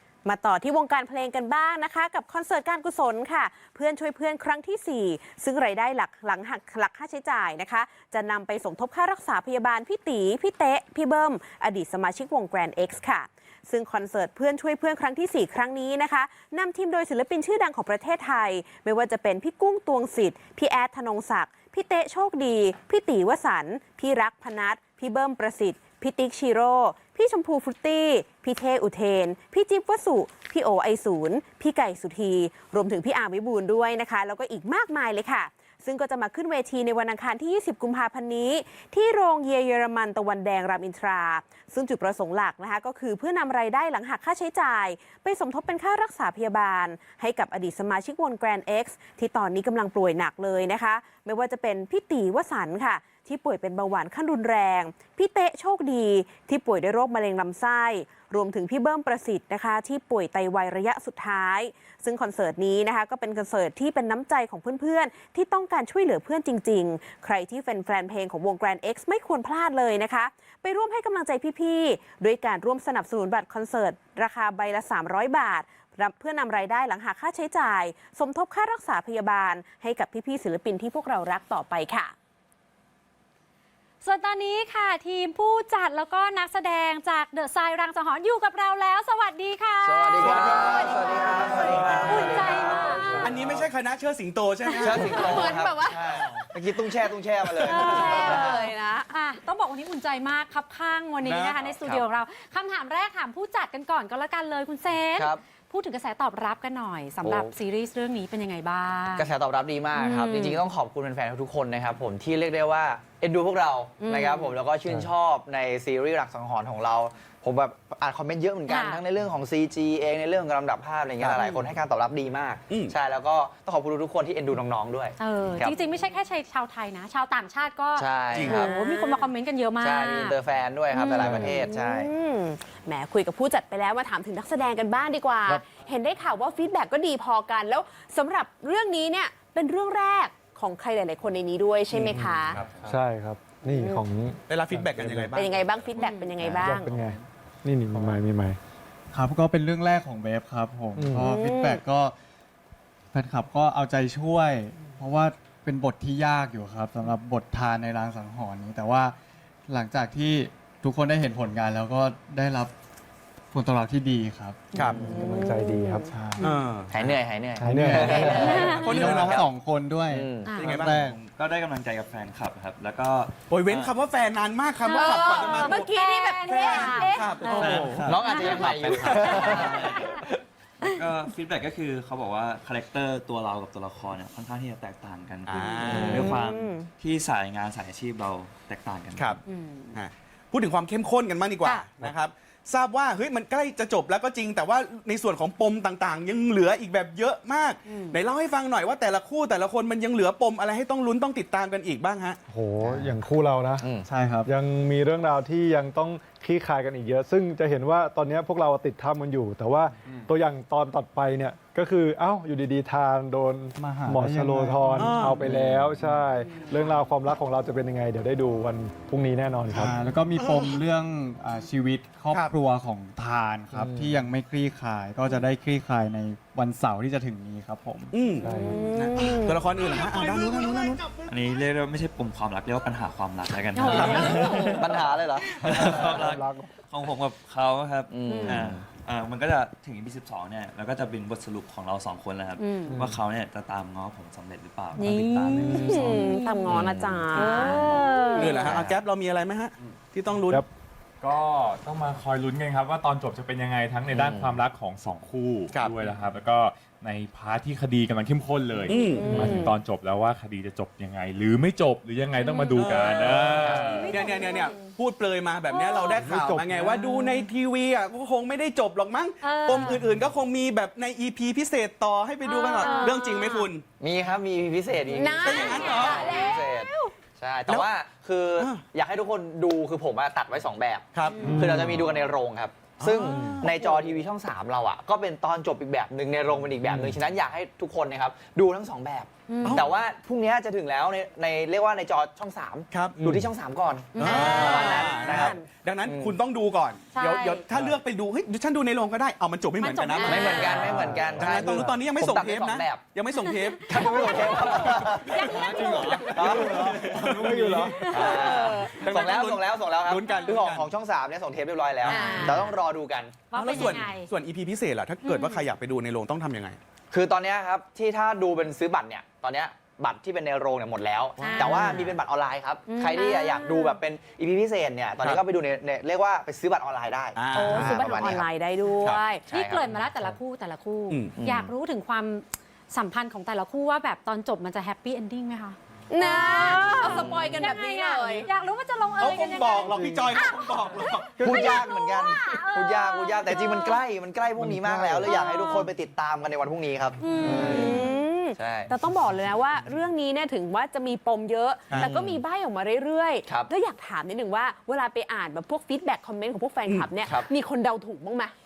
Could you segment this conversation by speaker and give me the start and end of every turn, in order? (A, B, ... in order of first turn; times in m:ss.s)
0:00.2-1:22.1 A
1:24.0-1:31.0 B
1:29.8-1:33.7 C
1:30.2-1:32.4 A
1:32.0-1:33.3 B
1:33.2-1:35.6 D
1:34.8-1:38.7 C
1:34.9-1:36.4 A
1:37.6-1:39.1 A
1:37.7-1:49.3 B
1:41.2-1:41.6 D
1:45.2-1:45.4 C
1:47.2-1:47.5 C
1:49.2-2:05.8 C
1:50.0-1:50.6 B
1:54.0-1:54.5 B
1:58.7-1:59.0 B
2:01.2-2:01.5 D
2:02.7-2:02.9 D
2:05.2-2:10.4 B
2:08.0-2:08.7 C
2:08.5-2:09.3 A
2:09.8-2:12.1 C
2:10.9-2:11.5 B
2:11.0-2:22.6 A
2:21.9-2:25.4 E
2:22.6-2:23.0 F
2:23.7-2:24.0 A
2:24.5-2:26.0 D
2:25.4-2:26.9 A
2:26.0-2:26.3 B
2:26.6-2:28.6 E
2:29.1-2:32.1 G
2:30.9-2:31.4 E
2:31.2-2:31.8 A
2:33.1-2:39.2 G
2:39.7-2:42.7 G
2:43.5-2:44.7 G
2:44.7-2:45.0 D
2:44.8-2:46.1 A
2:44.8-2:46.4 E
2:46.1-2:46.4 G
2:46.4-2:47.0 D
2:46.9-2:49.3 C
2:47.6-2:48.7 E
2:47.6-2:51.2 G
2:48.2-2:49.0 B
2:48.6-2:49.5 D
2:48.9-2:49.4 H
2:50.1-2:50.5 C
2:50.4-2:50.8 B
2:50.5-2:51.0 D
2:50.7-2:53.9 H
2:53.5-2:58.1 D
2:54.8-3:00.2 B
2:54.9-2:57.8 A
2:57.6-3:00.2 H
2:58.0-3:00.2 C
2:58.6-2:59.6 D
3:00.8-3:09.4 H
3:05.4-3:06.3 D
3:05.9-3:06.3 B
3:05.9-3:06.9 A
3:09.1-3:09.4 D
3:09.4-3:10.0 B
3:09.9-3:22.4 D
3:17.9-3:18.2 B
3:22.5-3:23.9 E
3:23.8-3:24.1 C
3:24.1-3:24.5 G
3:24.4-3:40.0 E
3:33.8-3:35.4 G
3:35.0-3:35.5 D
3:39.7-3:48.1 G
3:40.4-3:40.6 D
3:43.7-3:44.2 E
3:48.1-3:51.3 D
3:48.4-3:48.9 E
3:48.5-3:49.6 A
3:51.2-4:06.3 H
3:53.8-3:54.8 B
3:54.0-3:55.5 C
3:55.6-3:56.7 E
3:58.1-3:58.9 C
4:02.6-4:03.0 B
4:02.9-4:03.2 E
4:05.0-4:06.7 B
4:05.6-4:06.0 D
4:05.7-4:08.6 A
4:06.7-4:07.2 C
4:07.3-4:08.7 B
4:07.4-4:08.1 H
4:08.4-4:10.6 D
4:11.2-4:24.0 F
4:14.1-4:14.6 C
4:18.9-4:19.3 D
4:19.0-4:19.7 A
4:19.1-4:19.6 B
4:22.4-4:24.8 B
4:22.8-4:33.8 D
4:25.7-4:26.2 B
4:26.2-4:27.0 E
4:27.0-4:27.4 B
4:29.4-4:30.0 B
4:32.4-4:33.6 B
4:32.8-4:33.6 A
4:34.0-4:56.4 C
4:35.1-4:37.1 A
4:35.4-4:36.3 D
4:35.9-4:36.4 B
4:38.6-4:38.8 D
4:41.1-4:41.9 D
4:41.5-4:41.9 E
4:43.0-4:43.8 D
4:49.5-4:49.8 B
4:49.6-4:49.9 D
4:52.9-4:53.5 D
4:54.2-5:05.6 D
4:54.2-4:54.9 B
4:54.3-4:55.6 A
4:57.1-4:57.6 B
4:59.8-5:01.0 B
5:00.2-5:00.8 A
5:00.2-5:03.0 C
5:00.9-5:01.4 E
5:03.4-5:06.5 B
5:03.9-5:07.0 C
5:05.8-5:06.2 A
5:05.9-5:08.1 E
5:06.4-5:10.9 D
5:08.1-5:14.0 C
5:08.1-5:08.7 B
5:10.2-5:10.5 B
5:12.0-5:12.6 D
5:12.1-5:12.7 B
5:12.1-5:12.6 A
5:13.5-5:14.3 B
5:13.5-5:16.8 D
5:15.2-5:15.6 B
5:17.1-5:28.5 C
5:21.4-5:22.2 D
5:21.4-5:22.1 B
5:22.9-5:24.0 B
5:23.4-5:23.6 A
5:27.4-5:28.3 D
5:27.5-5:29.4 A
5:29.5-5:30.0 C
5:29.5-5:44.0 B
5:31.1-5:31.4 D
5:31.4-5:31.7 C
5:36.1-5:38.5 A
5:37.0-5:37.6 C
5:39.2-5:41.6 D
5:39.9-5:40.4 E
5:41.4-5:49.0 C
5:44.6-5:45.3 E
5:45.2-5:45.9 B
5:47.2-5:48.2 B
5:47.3-5:58.5 A
5:52.0-5:52.4 C
5:53.5-5:53.7 C
5:56.9-5:57.1 D